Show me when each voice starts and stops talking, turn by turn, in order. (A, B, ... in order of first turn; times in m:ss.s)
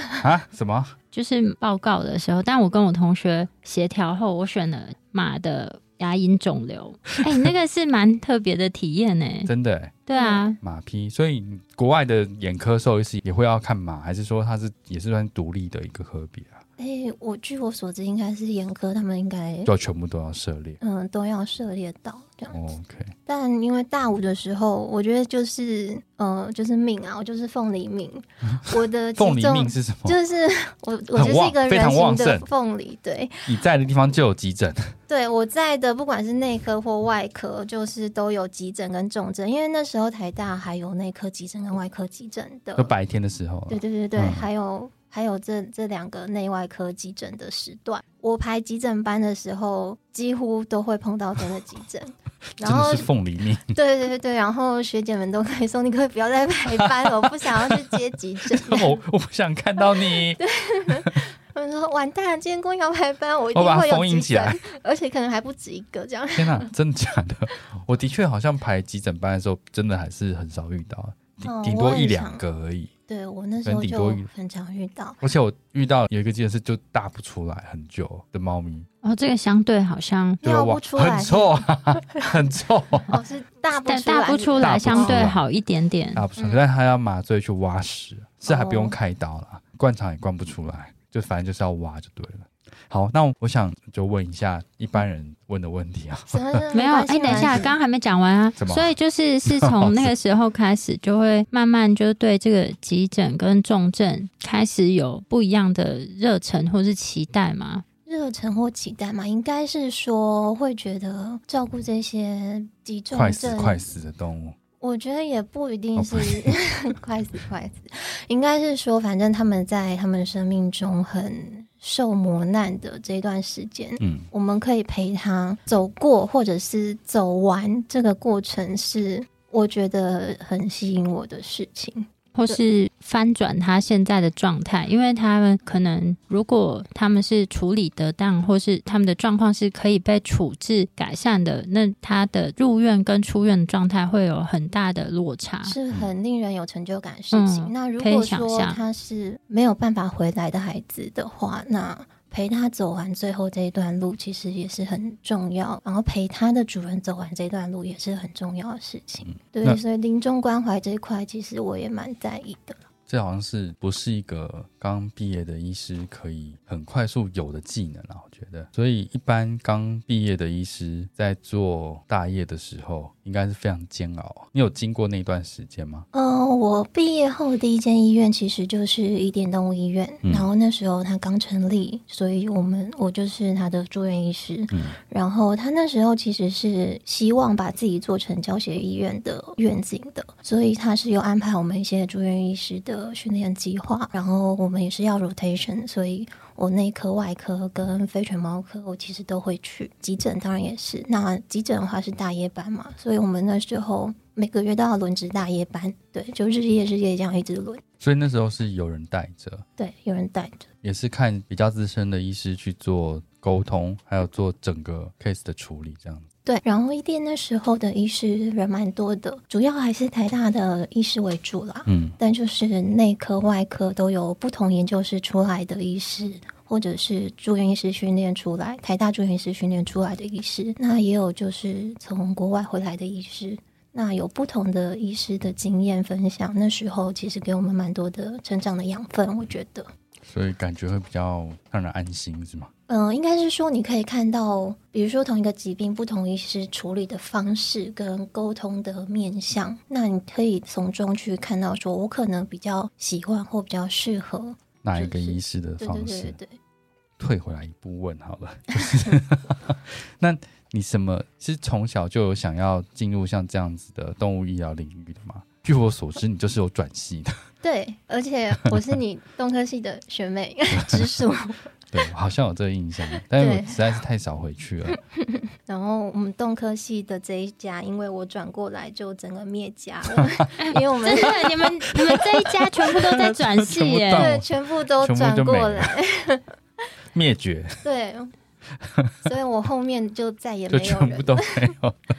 0:00.2-0:00.9 A
0:01.1-0:09.5 B
0:09.4-0:10.0 A
0:10.1-0:10.6 B
0:10.1-0:10.4 C
0:10.6-0:16.6 A
0:16.8-0:19.7 C
0:19.6-0:20.8 A
0:20.8-0:22.7 C
0:22.5-0:23.1 A
0:23.3-0:33.6 C
0:29.2-0:30.2 A
0:31.1-0:32.5 A
0:33.4-0:34.9 A
0:35.1-0:42.9 C
0:42.8-0:44.5 A
0:43.7-0:53.1 C
0:52.6-0:53.8 A
0:53.7-0:59.0 C
0:56.7-1:01.2 A
0:59.8-1:06.7 C
1:03.5-1:04.6 A
1:06.3-1:12.9 A
1:11.4-1:12.4 C
1:13.1-1:15.2 C
1:13.6-1:14.3 A
1:15.2-1:18.9 A
1:19.0-1:20.4 B
1:20.4-1:22.4 C
1:20.4-1:23.2 A
1:23.1-1:25.3 C
1:23.8-1:26.2 B
1:24.6-1:25.4 A
1:26.1-1:36.6 A
1:28.4-1:29.0 C
1:36.3-1:37.7 C
1:36.7-1:47.8 B
1:37.3-1:37.7 A
1:38.6-1:38.9 A
1:39.4-1:40.1 A
1:48.0-1:53.8 C
1:53.1-1:54.6 A
1:54.8-2:12.6 C
1:56.0-1:56.5 A
2:04.0-2:04.3 A
2:12.3-2:25.8 B
2:25.6-2:42.8 C
2:27.3-2:28.8 B
2:39.2-2:39.8 A
2:43.1-2:56.1 A
2:56.1-3:27.8 C
3:28.0-3:29.6 A
3:29.8-3:30.7 C
3:30.8-3:36.2 A
3:36.4-3:59.9 C
3:41.9-3:42.1 A
4:00.2-4:02.7 A
4:02.9-4:16.6 C
4:14.8-4:16.4 A
4:17.2-4:27.3 A
4:18.8-4:19.2 C
4:27.6-4:31.7 C
4:30.7-4:31.1 A
4:31.9-4:35.0 A
4:33.3-4:33.8 C
4:34.9-4:41.6 C
4:40.6-4:44.3 B
4:42.1-4:45.9 A
4:44.1-4:46.4 C
4:47.1-4:47.8 A
4:47.8-4:48.3 C
4:48.8-4:49.1 A
4:49.2-4:51.7 C
4:50.7-4:52.0 A